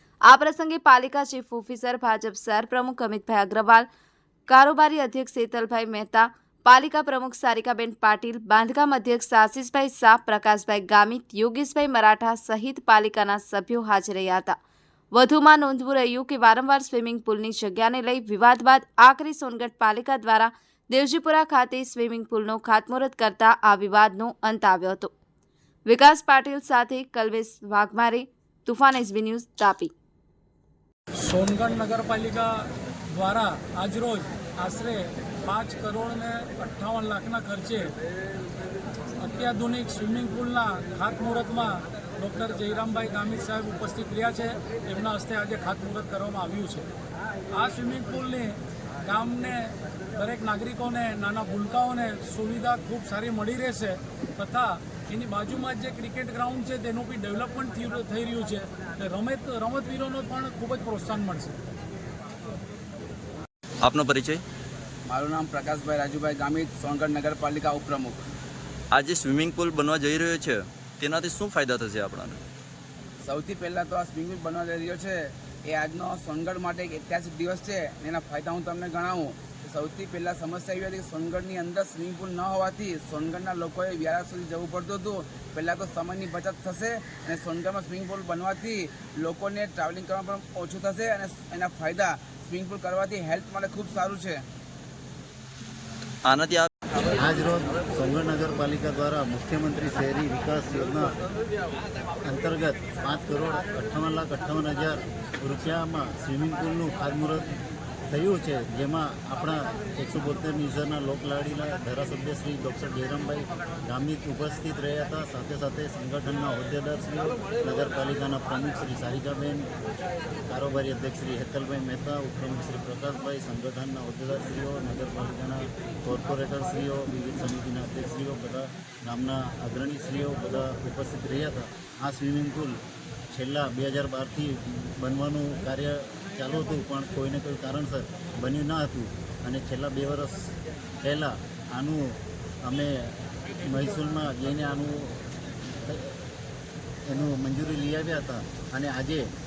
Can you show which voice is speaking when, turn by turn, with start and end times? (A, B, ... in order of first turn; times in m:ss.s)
0:00.2-0:03.9 A
0:04.5-0:14.6 A
0:15.1-0:25.1 A
0:25.9-0:29.9 A
0:31.2-0:37.9 B
0:39.2-0:46.9 B
0:47.5-1:01.6 B
1:03.8-1:04.4 C
1:05.1-1:08.2 D
1:08.9-1:12.4 C
1:13.2-1:34.4 D
1:36.2-1:36.7 C
1:37.0-1:41.2 E
1:42.2-1:47.5 E
1:48.1-1:59.7 E
2:00.5-2:26.3 E
2:27.0-2:29.3 E